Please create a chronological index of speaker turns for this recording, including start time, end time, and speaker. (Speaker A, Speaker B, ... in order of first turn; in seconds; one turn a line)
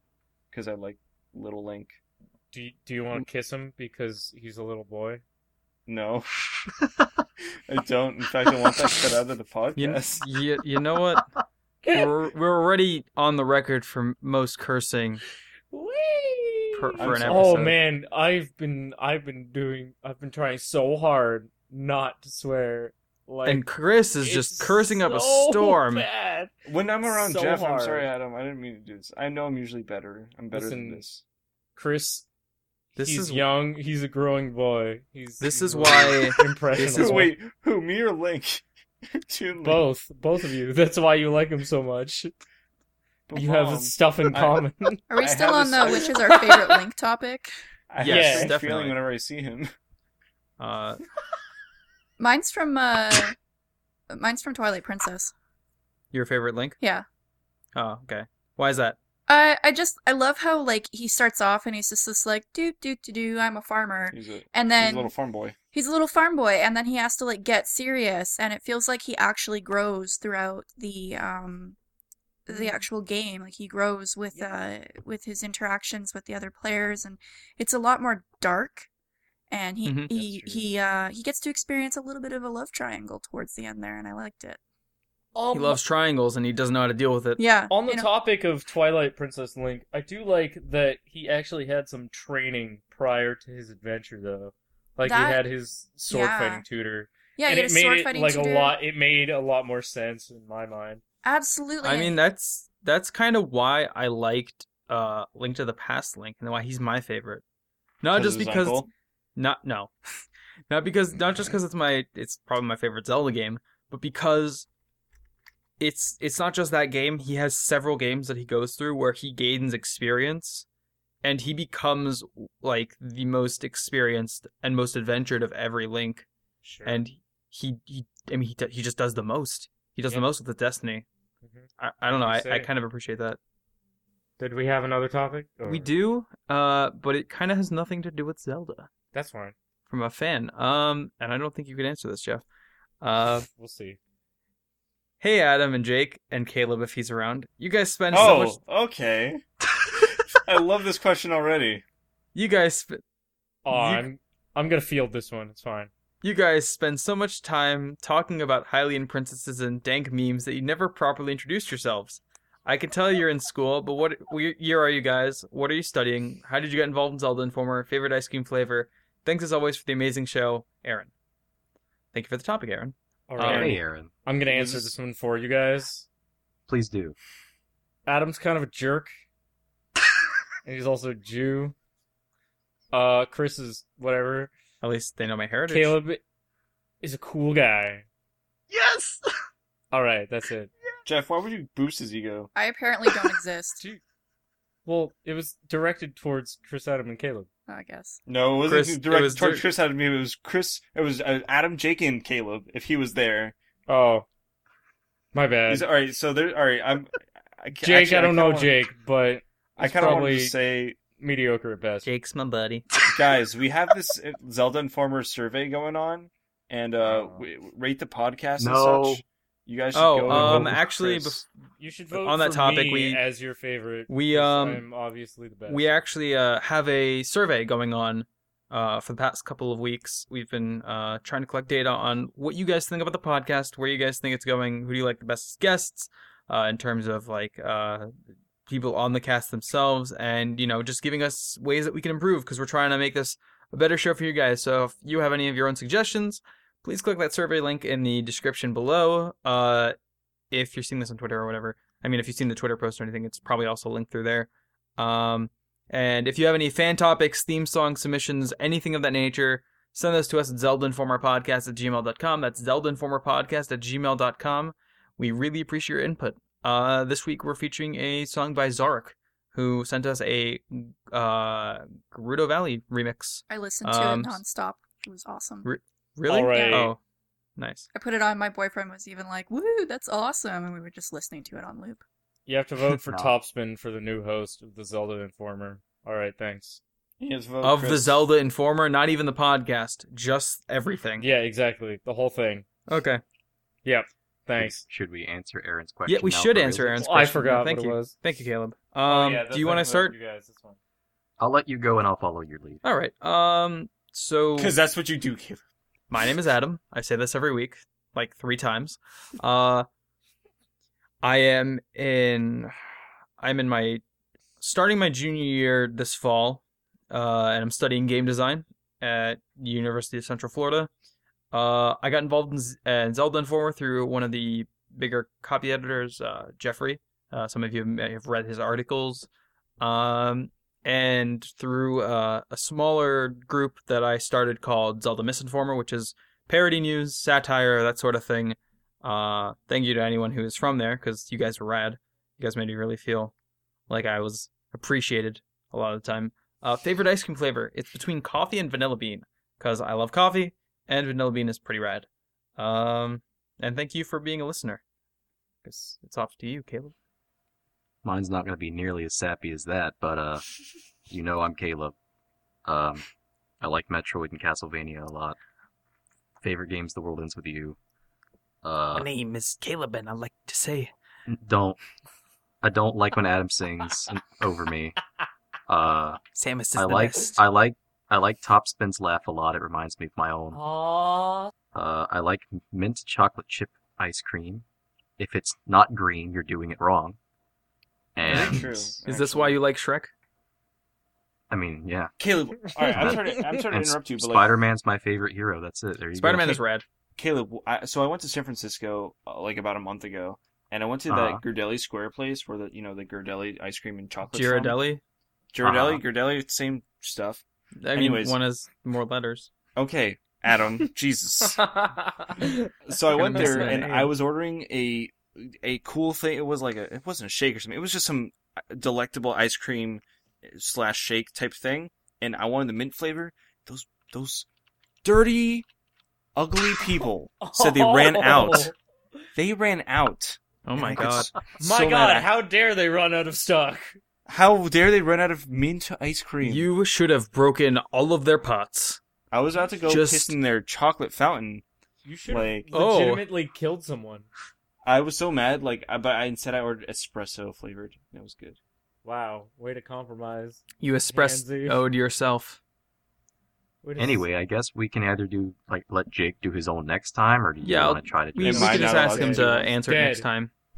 Speaker A: 0.5-2.0
Speaker B: 2.5-5.2
Speaker A: 5.9-6.3
Speaker A: 7.7-10.3
Speaker C: 9.8-11.3
Speaker B: 11.8-12.2
Speaker C: 11.9-15.2
Speaker B: 15.7-23.6
Speaker C: 16.7-17.8
Speaker A: 17.0-17.7
Speaker C: 23.4-26.1
Speaker B: 24.2-26.5
Speaker A: 26.7-31.2
Speaker B: 27.1-28.1
Speaker B: 30.5-31.0
Speaker B: 31.7-32.2
Speaker B: 33.0-37.3
Speaker C: 33.0-33.5
Speaker C: 35.4-37.3
Speaker A: 36.9-38.6
Speaker A: 39.2-39.9
Speaker B: 39.6-42.3
Speaker A: 43.3-44.6
Speaker B: 43.3-45.0
Speaker D: 45.1-47.5
Speaker A: 45.2-46.5
Speaker A: 47.9-49.7
Speaker C: 48.0-49.0
Speaker B: 48.0-48.6
Speaker C: 50.6-51.0
Speaker D: 52.2-53.4
Speaker D: 54.1-55.3
Speaker C: 56.1-56.8
Speaker D: 56.8-57.0
Speaker C: 57.7-59.0
Speaker D: 59.3-65.1
Speaker A: 64.1-65.5
Speaker D: 65.7-71.8
Speaker D: 72.5-78.9
Speaker B: 72.5-72.9
Speaker D: 79.5-84.6
Speaker C: 79.8-80.1
Speaker B: 80.1-80.7
Speaker B: 85.3-85.8
Speaker C: 85.5-87.4
Speaker D: 87.4-88.1
Speaker B: 87.7-101.0
Speaker D: 95.0-95.5
Speaker D: 96.1-96.6
Speaker D: 97.4-98.8
Speaker D: 101.2-102.2
Speaker C: 101.8-107.4
Speaker C: 108.0-109.9
Speaker A: 108.1-108.9
Speaker C: 110.7-114.7
Speaker C: 115.8-120.7
Speaker C: 121.2-126.3
Speaker B: 126.6-127.0
Speaker C: 126.8-131.1
Speaker B: 131.4-132.7
Speaker C: 131.8-133.4
Speaker B: 134.4-135.9
Speaker C: 135.7-138.9
Speaker B: 139.1-139.6
Speaker C: 139.9-142.4
Speaker C: 143.0-143.5
Speaker B: 143.5-144.0
Speaker C: 145.2-148.6
Speaker A: 148.1-149.4
Speaker A: 149.9-151.8
Speaker C: 152.3-153.0
Speaker B: 153.6-155.9
Speaker C: 153.7-154.1
Speaker C: 156.2-171.1
Speaker C: 172.1-173.7
Speaker B: 173.3-176.1
Speaker A: 173.4-173.7
Speaker E: 173.5-174.1
Speaker A: 174.5-174.9
Speaker E: 176.7-177.2
Speaker B: 178.1-179.1
Speaker B: 180.6-181.7
Speaker B: 182.9-184.5
Speaker C: 184.8-186.0
Speaker B: 185.7-186.2
Speaker B: 187.0-188.1
Speaker E: 188.7-189.2
Speaker B: 189.9-190.7
Speaker A: 191.1-192.5
Speaker D: 192.6-193.8
Speaker B: 194.8-197.5
Speaker D: 197.7-198.2
Speaker A: 198.3-203.6
Speaker C: 198.7-199.6
Speaker B: 203.9-204.3
Speaker B: 205.3-205.9
Speaker A: 205.7-208.8
Speaker B: 207.8-212.1
Speaker A: 209.8-211.0
Speaker C: 212.0-212.8
Speaker A: 213.1-221.4
Speaker E: 218.6-219.2
Speaker C: 219.9-221.4
Speaker E: 220.3-220.8
Speaker B: 221.8-225.9
Speaker C: 222.1-223.2
Speaker C: 224.1-224.8
Speaker C: 225.7-238.1
Speaker C: 238.7-249.9
Speaker C: 250.5-274.4
Speaker D: 273.5-275.7
Speaker C: 275.6-277.0
Speaker B: 276.3-276.9
Speaker D: 276.5-276.8
Speaker C: 277.6-277.9
Speaker D: 277.9-282.0
Speaker B: 282.4-286.8
Speaker E: 283.1-283.4
Speaker A: 287.2-288.2
Speaker C: 287.6-291.3
Speaker B: 291.2-292.7
Speaker C: 292.9-293.2
Speaker B: 293.9-294.9
Speaker E: 294.6-297.1
Speaker C: 296.1-300.2
Speaker B: 297.0-298.2
Speaker B: 299.1-300.8
Speaker E: 301.4-302.8
Speaker C: 302.8-304.8
Speaker A: 304.6-305.6
Speaker C: 306.1-309.9
Speaker C: 311.2-312.7
Speaker C: 313.4-314.0
Speaker C: 314.6-320.9
Speaker C: 321.5-329.3
Speaker C: 329.8-343.3
Speaker C: 343.9-354.8
Speaker C: 355.6-356.9
Speaker E: 358.0-360.4
Speaker E: 361.1-361.9
Speaker E: 362.6-363.1
Speaker E: 363.6-365.4
Speaker E: 366.4-367.8
Speaker E: 368.6-369.1
Speaker C: 368.9-370.9
Speaker E: 371.3-371.8
Speaker E: 372.6-375.0
Speaker E: 375.7-376.2
Speaker C: 376.4-377.4
Speaker E: 376.7-380.6
Speaker B: 380.5-381.5
Speaker E: 381.7-384.6
Speaker E: 385.2-387.2
Speaker E: 388.2-388.9
Speaker A: 388.3-389.6
Speaker C: 388.3-390.1
Speaker E: 391.5-392.1
Speaker A: 392.2-394.6
Speaker B: 392.8-393.3
Speaker E: 392.9-396.6
Speaker C: 396.2-396.9
Speaker A: 397.2-404.8
Speaker E: 401.1-401.4
Speaker C: 404.3-405.0
Speaker A: 405.5-407.4
Speaker E: 405.6-406.0
Speaker C: 407.8-409.5
Speaker A: 407.9-408.4
Speaker A: 409.8-411.7
Speaker B: 411.4-414.1
Speaker A: 412.9-424.5
Speaker C: 413.1-414.1
Speaker A: 425.0-425.7
Speaker A: 426.4-428.7
Speaker B: 427.4-428.7
Speaker A: 429.4-432.3
Speaker C: 430.6-431.3
Speaker E: 431.0-431.3
Speaker B: 431.6-434.0
Speaker A: 434.3-436.7
Speaker C: 436.4-439.0
Speaker A: 439.3-441.6
Speaker C: 439.9-440.4
Speaker B: 442.1-444.3
Speaker A: 442.3-442.7
Speaker C: 442.7-443.3
Speaker A: 444.9-448.6
Speaker B: 449.0-451.8
Speaker C: 450.8-452.6
Speaker B: 453.8-454.2
Speaker E: 454.0-458.9
Speaker C: 457.6-460.5
Speaker A: 458.4-459.7
Speaker B: 458.5-460.3